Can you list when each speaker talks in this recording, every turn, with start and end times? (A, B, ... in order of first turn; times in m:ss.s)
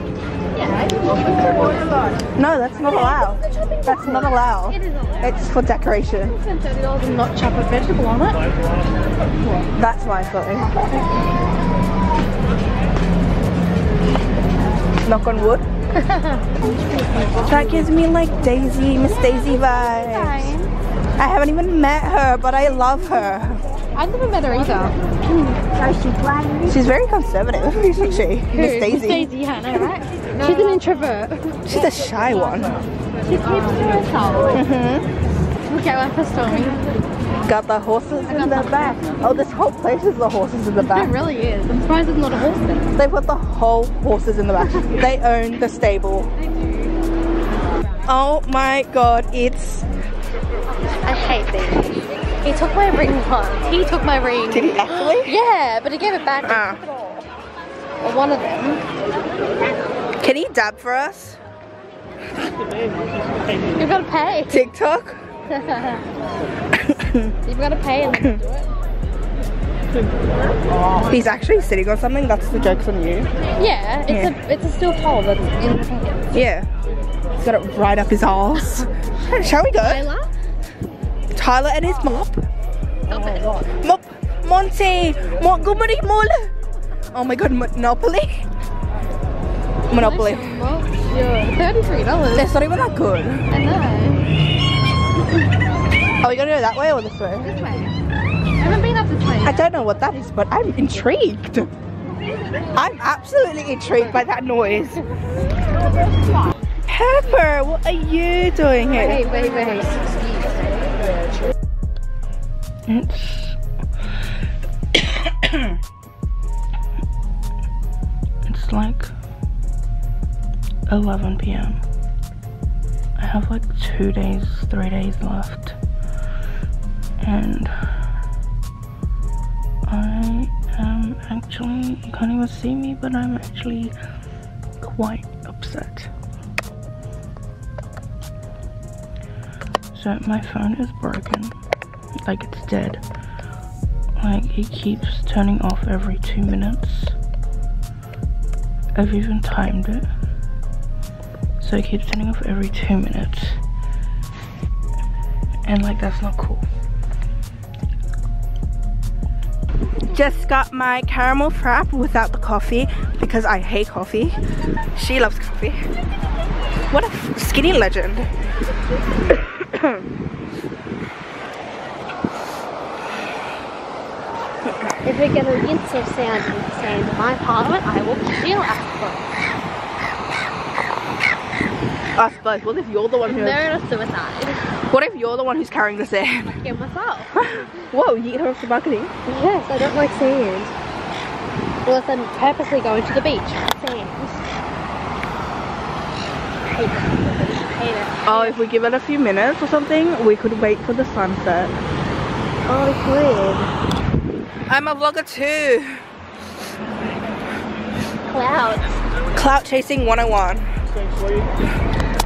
0:00.5-0:02.3 A
0:02.4-0:06.3 B
0:02.8-0:05.4 A
0:06.2-0:08.4 A
0:09.8-0:11.0 B
0:15.0-0:15.6 B
0:15.9-0:17.7 A
0:17.4-0:20.5 B
0:19.3-0:20.7 A
0:21.2-0:23.6 B
0:24.0-0:26.7 A
0:26.6-0:29.3 B
0:28.5-0:31.6 A
0:31.7-0:32.8 B
0:33.2-0:34.7 A
0:34.5-0:35.1 B
0:35.7-0:37.0 A
0:37.4-0:41.2 B
0:38.3-0:39.0 A
0:40.8-0:42.9 A
0:43.0-0:46.3 B
0:46.4-0:46.9 A
0:48.1-0:49.9 B
0:51.0-0:57.2 A
0:54.5-0:55.4 B
0:56.4-0:56.8 B
0:58.0-0:58.8 A
1:00.2-1:01.4 B
1:03.8-1:04.6 A
1:04.5-1:05.2 B
1:05.5-1:06.0 A
1:06.7-1:07.4 B
1:07.5-1:08.7 A
1:11.1-1:13.3 B
1:13.6-1:16.3 A
1:14.1-1:14.3 B
1:16.3-1:16.7 B
1:17.4-1:20.1 B
1:19.4-1:20.3 A
1:21.3-1:22.4 B
1:23.1-1:23.7 A
1:23.8-1:26.5 B
1:27.1-1:28.4 B
1:29.9-1:30.5 B
1:29.9-1:32.5 A
1:32.3-1:33.5 B
1:33.5-1:34.3 A
1:36.2-1:37.6 B
1:37.4-1:38.0 A
1:38.6-1:39.6 A
1:39.4-1:41.7 B
1:42.1-1:42.7 A
1:42.7-1:45.0 B
1:46.9-1:49.3 B
1:48.9-1:50.7 A
1:52.9-1:53.6 B
1:54.9-1:55.8 B
1:58.4-1:59.1 B
2:00.9-2:01.8 B
2:03.2-2:05.8 B
2:07.2-2:07.9 B
2:09.9-2:14.0 B
2:14.8-2:16.1 B
2:19.9-2:21.5 B
2:22.2-2:23.0 B
2:24.2-2:27.2 B
2:29.0-2:30.1 B
2:31.6-2:33.6 B
2:35.6-2:36.7 B
2:40.1-2:44.4 B
2:45.0-2:45.9 B
2:46.9-2:48.3 B
2:49.3-2:50.0 B
2:54.7-2:55.0 B
2:55.0-2:59.3 A
3:02.2-3:03.7 B
3:03.2-3:04.7 A
3:04.9-3:06.6 B
3:06.6-3:07.5 A
3:07.4-3:09.1 B
3:09.3-3:10.7 A
3:11.8-3:14.4 A
3:16.7-3:18.6 A
3:18.2-3:21.8 B
3:22.6-3:23.7 A
3:24.7-3:26.0 B
3:28.3-3:28.9 A
3:29.3-3:30.7 B